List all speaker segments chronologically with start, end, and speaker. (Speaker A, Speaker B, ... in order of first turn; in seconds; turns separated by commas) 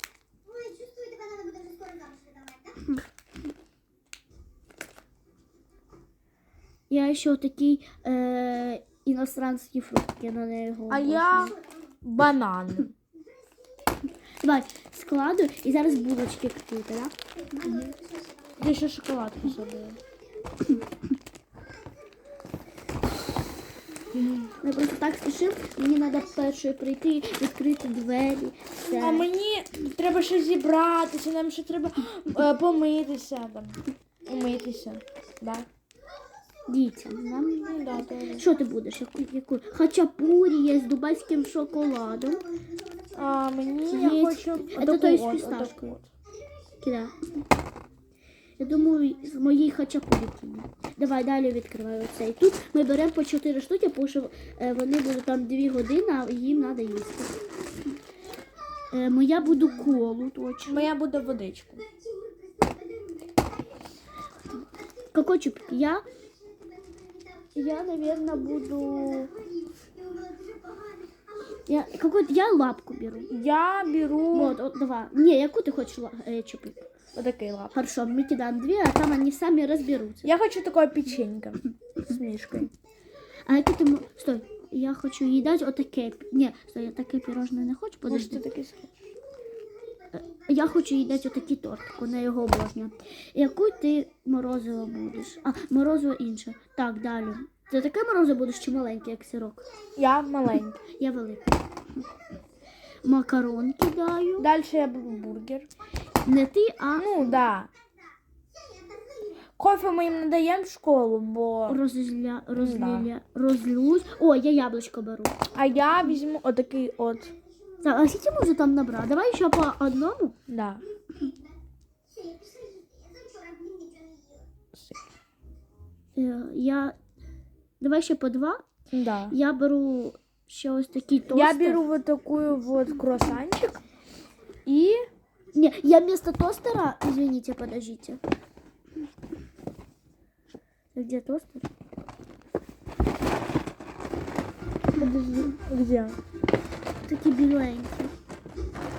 Speaker A: 0.5-2.3, Speaker B: 6.9-11.6, Speaker C: 10.9-12.9, Speaker B: 14.4-17.1, Speaker C: 17.6-18.0, Speaker C: 18.6-20.0, Speaker C: 24.1-24.5, Speaker B: 24.6-29.3, Speaker C: 29.0-35.7, Speaker B: 36.7-42.5, Speaker C: 37.6-38.5, Speaker C: 43.1-46.1, Speaker B: 43.8-45.9, Speaker B: 46.8-47.2, Speaker B: 48.6-57.7, Speaker B: 58.9-60.9, Speaker C: 60.7-61.8, Speaker A: 62.0-63.5, Speaker B: 65.1-66.0, Speaker A: 66.8-67.2, Speaker B: 67.5-69.3, Speaker A: 69.2-71.2, Speaker B: 71.7-73.3, Speaker C: 73.3-74.6, Speaker B: 74.3-76.9, Speaker C: 77.1-77.8, Speaker B: 77.7-80.3, Speaker C: 80.2-82.7, Speaker B: 83.5-88.4, Speaker C: 88.1-88.9, Speaker B: 90.1-99.7, Speaker C: 100.0-100.8, Speaker B: 100.9-101.6, Speaker B: 103.0-104.5, Speaker C: 104.4-105.7, Speaker B: 106.2-107.1, Speaker C: 107.0-107.7, Speaker C: 109.6-111.8, Speaker B: 111.7-115.3, Speaker C: 112.5-113.1, Speaker C: 115.5-117.3, Speaker B: 117.8-120.3, Speaker C: 120.5-120.9, Speaker A: 122.2-124.3, Speaker B: 126.2-126.9, Speaker B: 127.8-128.6, Speaker C: 128.9-129.4, Speaker B: 129.3-131.8, Speaker C: 131.3-133.8, Speaker C: 134.7-135.0, Speaker B: 135.5-138.2, Speaker B: 140.9-141.7, Speaker C: 144.9-146.2, Speaker B: 147.0-148.1